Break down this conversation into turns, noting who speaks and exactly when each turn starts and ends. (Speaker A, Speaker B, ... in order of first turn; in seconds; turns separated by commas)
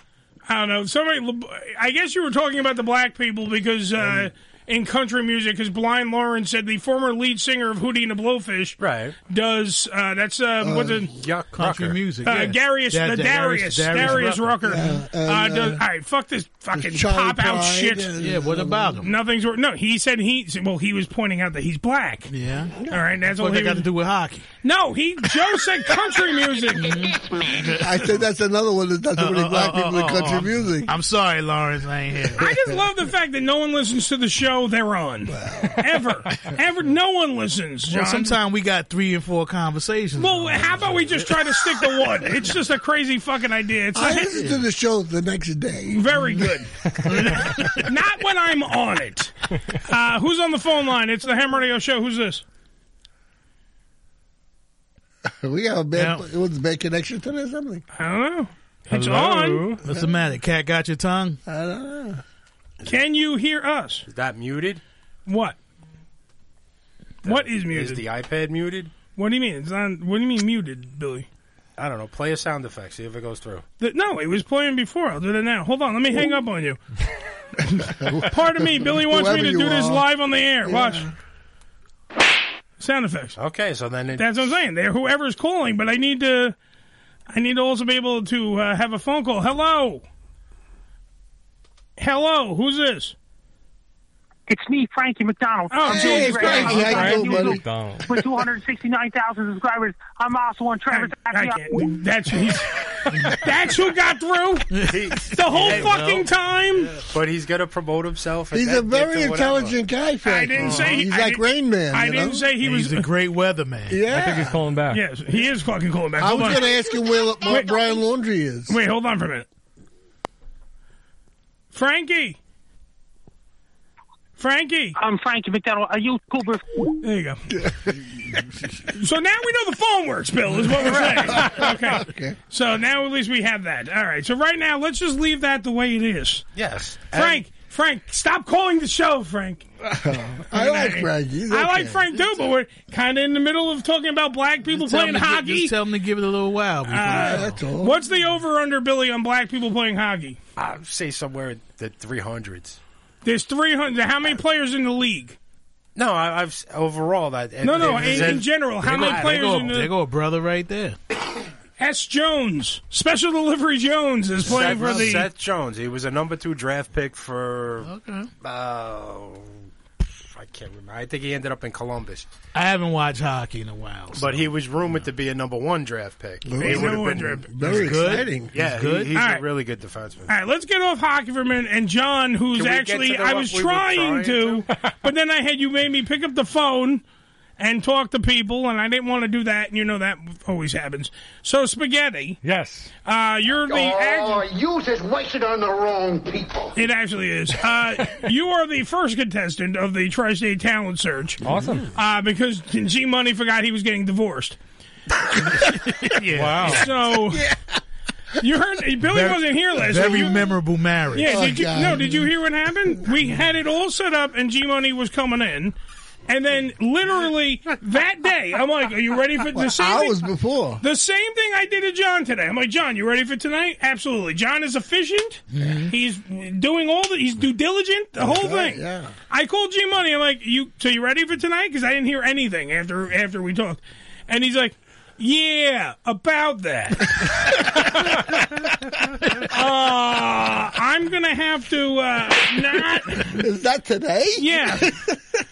Speaker A: 0.5-11.1, Speaker B: 4.0-4.3, Speaker C: 8.8-9.1, Speaker B: 10.6-11.1, Speaker C: 11.2-12.0, Speaker D: 11.5-14.8, Speaker A: 12.2-18.1, Speaker B: 14.6-15.8, Speaker B: 16.7-19.0, Speaker D: 18.2-19.1, Speaker A: 19.0-22.3, Speaker D: 22.3-24.5, Speaker A: 22.9-23.9, Speaker A: 24.6-27.0, Speaker D: 26.8-28.1, Speaker B: 27.8-30.9, Speaker D: 29.2-32.5, Speaker A: 32.4-38.4, Speaker B: 32.4-32.8, Speaker B: 35.3-35.8, Speaker D: 37.9-41.3, Speaker A: 40.2-44.4, Speaker B: 43.9-46.0, Speaker D: 44.3-44.6, Speaker A: 45.9-49.3, Speaker D: 47.1-47.8, Speaker A: 49.8-52.4, Speaker B: 55.2-57.8, Speaker D: 56.0-56.2, Speaker A: 57.9-59.7, Speaker E: 58.9-59.8, Speaker D: 59.8-61.4, Speaker B: 61.5-62.2, Speaker A: 62.8-64.0, Speaker C: 64.1-64.8, Speaker A: 65.3-65.6, Speaker C: 67.2-68.9, Speaker A: 67.2-68.0, Speaker A: 69.2-71.3, Speaker C: 71.8-73.6, Speaker A: 73.8-76.8, Speaker A: 77.7-81.0, Speaker B: 77.8-80.1, Speaker B: 80.6-81.1, Speaker A: 82.8-83.4, Speaker C: 83.4-84.5, Speaker A: 84.2-86.6, Speaker A: 87.3-90.0, Speaker A: 92.0-93.1, Speaker F: 94.5-101.8, Speaker A: 95.7-97.4, Speaker B: 95.9-98.2, Speaker E: 96.7-98.1, Speaker A: 100.9-107.0, Speaker D: 103.1-103.4, Speaker D: 104.7-106.3, Speaker C: 104.9-105.9, Speaker C: 107.0-109.8, Speaker B: 108.5-112.5, Speaker A: 110.2-113.1, Speaker D: 112.6-114.1, Speaker B: 113.9-114.6, Speaker E: 114.1-115.0, Speaker A: 114.9-116.7, Speaker B: 116.2-118.8, Speaker A: 117.5-117.8, Speaker A: 118.7-119.5, Speaker A: 121.7-122.4, Speaker A: 124.4-125.0, Speaker F: 125.0-126.6, Speaker A: 127.0-127.4, Speaker B: 127.5-128.2, Speaker A: 128.9-136.4, Speaker B: 130.8-132.4, Speaker C: 136.6-137.4, Speaker A: 137.1-139.7, Speaker B: 139.9-142.1, Speaker A: 140.5-145.7, Speaker D: 144.7-147.6, Speaker A: 146.9-150.4, Speaker B: 147.1-148.0, Speaker C: 150.6-152.8, Speaker A: 153.2-155.4, Speaker C: 155.9-159.4, Speaker A: 157.6-159.9, Speaker D: 157.7-160.9, Speaker A: 161.8-165.3, Speaker C: 164.4-169.6, Speaker D: 164.5-165.2, Speaker D: 167.8-168.3, Speaker C: 170.2-172.3, Speaker D: 172.5-174.5, Speaker C: 174.1-177.9, Speaker B: 176.4-178.5, Speaker A: 176.6-177.4, Speaker D: 177.6-179.1, Speaker C: 178.5-180.3, Speaker A: 179.1-179.4, Speaker A: 180.3-187.0, Speaker C: 182.6-184.6, Speaker A: 187.6-192.4, Speaker E: 192.4-192.9, Speaker A: 193.1-194.5, Speaker G: 194.1-196.6, Speaker A: 196.7-201.4, Speaker E: 201.4-201.9, Speaker A: 201.9-204.6, Speaker D: 205.4-206.9, Speaker E: 206.3-206.8, Speaker A: 206.6-207.5, Speaker B: 207.3-207.6, Speaker A: 208.4-210.5, Speaker D: 209.1-211.4, Speaker A: 211.1-215.8, Speaker B: 211.2-212.3, Speaker A: 216.3-220.2, Speaker B: 219.5-220.8, Speaker A: 220.8-238.3, Speaker D: 225.5-225.9, Speaker B: 228.2-229.1, Speaker A: 239.4-243.4, Speaker B: 243.2-245.2, Speaker A: 244.4-244.9